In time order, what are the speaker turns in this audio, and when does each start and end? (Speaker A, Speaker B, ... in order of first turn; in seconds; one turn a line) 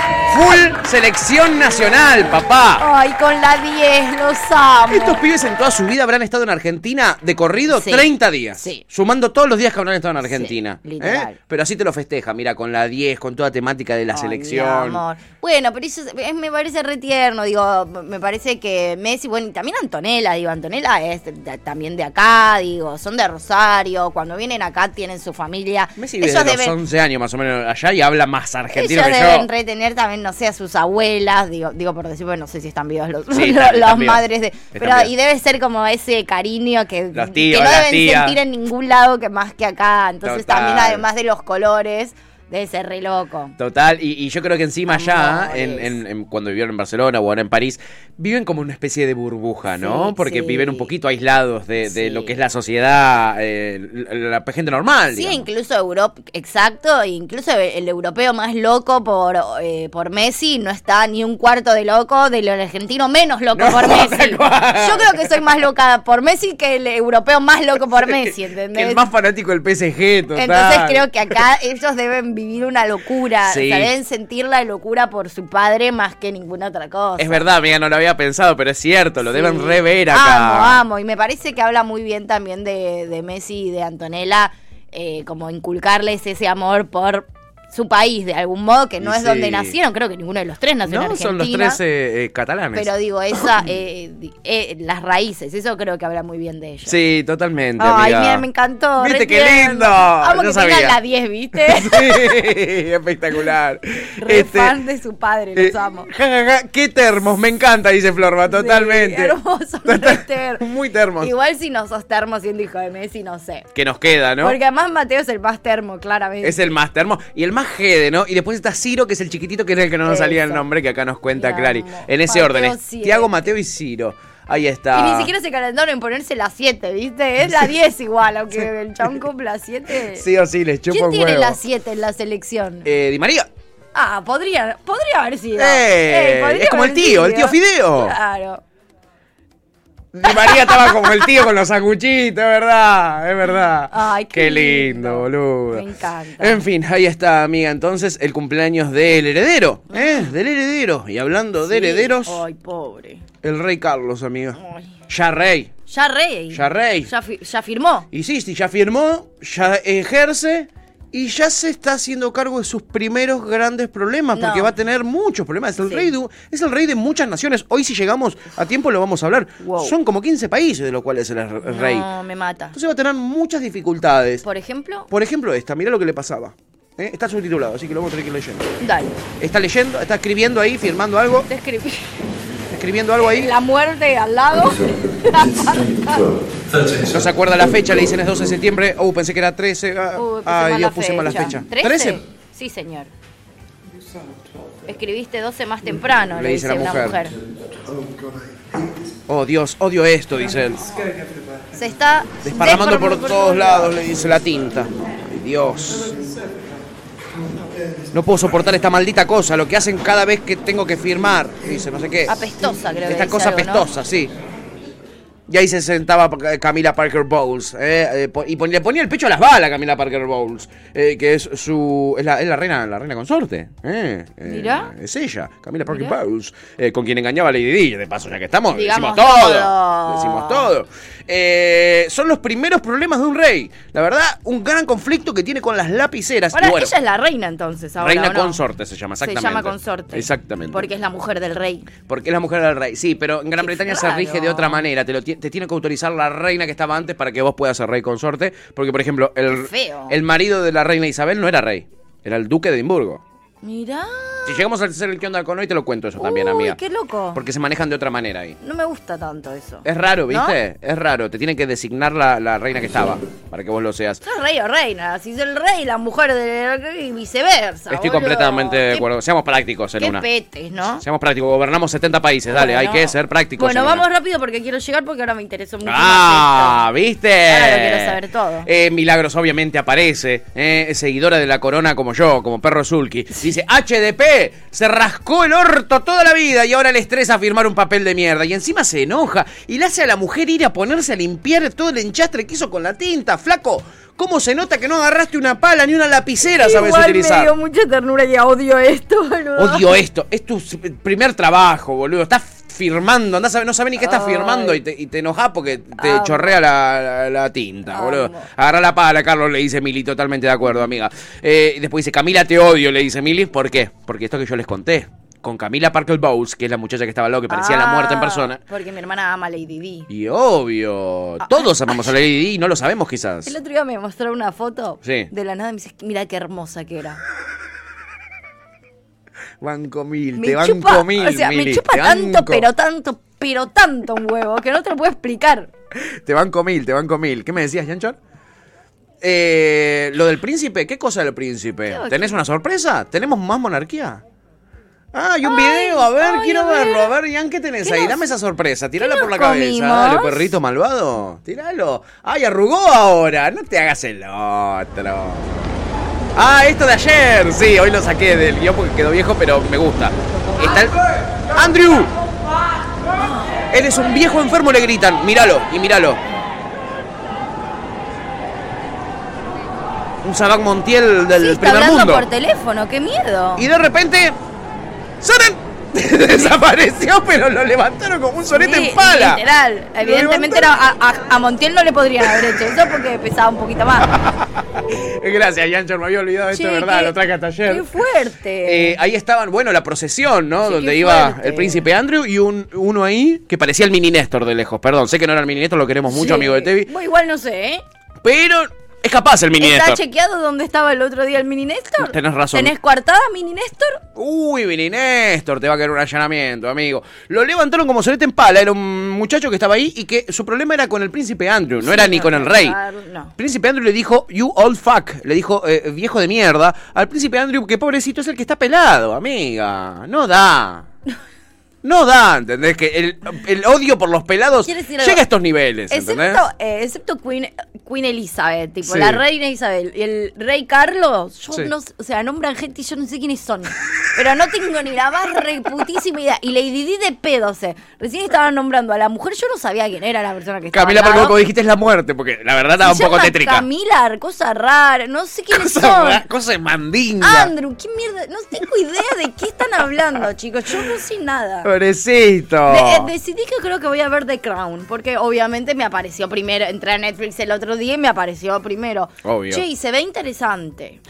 Speaker A: 0.3-2.8
Speaker B: 2.8-5.2
Speaker A: 4.9-15.0
Speaker B: 7.7-8.8
Speaker B: 10.2-11.4
Speaker B: 14.1-26.8
Speaker A: 26.0-29.5
Speaker B: 28.7-43.6
Speaker A: 33.3-35.1
Speaker A: 37.1-38.4
Speaker A: 40.2-41.1
Speaker A: 43.6-55.5
Speaker B: 44.9-46.0
Speaker B: 49.8-50.9
Speaker B: 51.8-52.4
Speaker B: 55.1-69.0
Speaker A: 63.5-65.4
Speaker A: 68.0-71.1
Speaker B: 70.4-77.5
Speaker A: 73.4-73.9
Speaker A: 77.2-80.8
Speaker B: 79.2-91.8
Speaker A: 89.0-89.8
Speaker A: 90.9-93.5
Speaker B: 92.7-97.0
Speaker A: 96.9-98.5
Speaker B: 97.8-102.5
Speaker A: 99.0-101.0
Speaker A: 101.5-104.8
Speaker B: 104.2-106.1
Speaker A: 105.6-111.3
Speaker B: 108.5-110.6
Speaker B: 111.2-113.7
Speaker A: 113.7-114.6
Speaker B: 114.4-116.7
Speaker A: 116.4-125.3
Speaker B: 120.1-120.7
Speaker B: 121.3-123.3
Speaker B: 124.9-130.2
Speaker A: 130.2-131.6
Speaker B: 130.9-132.9
Speaker A: 132.8-133.5
Speaker B: 133.9-138.6
Speaker A: 135.6-138.2
Speaker A: 140.1-145.8
Speaker B: 140.2-141.5
Speaker B: 143.9-146.7
Speaker A: 146.4-152.4
Speaker B: 149.9-150.3
Speaker B: 151.7-153.2
Speaker A: 153.4-154.6
Speaker B: 154.6-154.9
Speaker A: 155.1-155.7
Speaker B: 155.9-158.1
Speaker A: 156.5-157.1
Speaker A: 158.1-172.1
Speaker B: 164.3-164.7
Speaker B: 165.8-166.1
Speaker B: 169.6-169.9
Speaker B: 171.6-172.8
Speaker A: 172.7-174.4
Speaker B: 174.4-175.1
Speaker A: 175.1-178.7
Speaker B: 178.8-179.2
Speaker A: 179.4-181.5
Speaker B: 181.5-182.1
Speaker A: 182.7-183.5
Speaker B: 183.2-186.2
Speaker A: 187.1-192.2
Speaker B: 190.2-193.1
Speaker B: 194.9-197.3
Speaker A: 196.3-197.2
Speaker A: 199.3-201.0
Speaker B: 200.8-201.1
Speaker B: 201.7-204.0
Speaker A: 202.4-206.2
Speaker A: 208.1-212.4
Speaker B: 212.3-213.9
Speaker A: 213.1-214.3
Speaker A: 215.5-236.9
Speaker B: 224.4-224.9
Speaker B: 225.9-226.2
Speaker B: 228.7-230.7
Speaker B: 236.5-238.6
Speaker A: 238.0-240.9
Speaker B: 239.2-241.9
Speaker A: 242.1-253.2
Speaker B: 243.6-244.8
Speaker B: 249.5-250.2
Speaker B: 253.6-254.6
Speaker A: 254.5-256.8
Speaker B: 256.2-257.4
Speaker A: 257.3-258.6
Speaker B: 258.6-260.6
Speaker A: 259.9-264.2
Speaker B: 264.2-269.1
Speaker A: 267.9-270.2
Speaker B: 270.0-271.0
Speaker A: 271.0-274.0
Speaker B: 272.5-276.8
Speaker A: 275.9-297.5
Speaker B: 277.5-278.7
Speaker B: 296.5-299.9
Speaker A: 299.6-318.6
Speaker B: 304.0-304.8
Speaker B: 306.0-306.6
Speaker B: 307.9-308.5
Speaker B: 317.5-320.1
Speaker A: 320.1-323.5
Speaker B: 321.4-322.1
Speaker B: 323.4-327.2
Speaker A: 325.0-325.3
Speaker A: 329.6-332.7
Speaker B: 330.4-335.7
Speaker A: 336.1-338.2
Speaker A: 339.2-344.2
Speaker B: 341.9-342.4
Speaker A: 345.1-355.6
Speaker B: 345.4-347.1
Speaker B: 347.8-348.3
Speaker B: 349.0-350.5
Speaker A: 356.4-361.0
Speaker A: 361.5-362.1
Speaker A: 363.7-366.2
Speaker A: 370.2-372.2
Speaker B: 371.4-373.7
Speaker A: 373.6-374.4
Speaker A: 375.2-379.4
Speaker B: 378.5-384.1
Speaker A: 380.0-380.7
Speaker A: 382.2-382.5
Speaker A: 384.0-387.9
Speaker B: 386.5-387.1
Speaker B: 387.7-389.0
Speaker A: 388.6-396.9
Speaker B: 390.6-391.9
Speaker B: 396.1-397.8
Speaker A: 398.2-400.0
Speaker B: 399.6-404.0
Speaker A: 402.0-402.7
Speaker A: 404.2-412.8
Speaker B: 411.8-413.3
Speaker A: 413.4-420.9
Speaker A: 421.8-426.4
Speaker B: 424.7-425.2
Speaker B: 425.9-441.4
Speaker A: 428.9-429.2
Speaker A: 440.7-443.7
Speaker B: 442.8-446.2
Speaker A: 445.5-447.5
Speaker B: 447.2-451.7
Speaker A: 451.6-453.1
Speaker B: 452.7-461.0
Speaker A: 459.2-459.6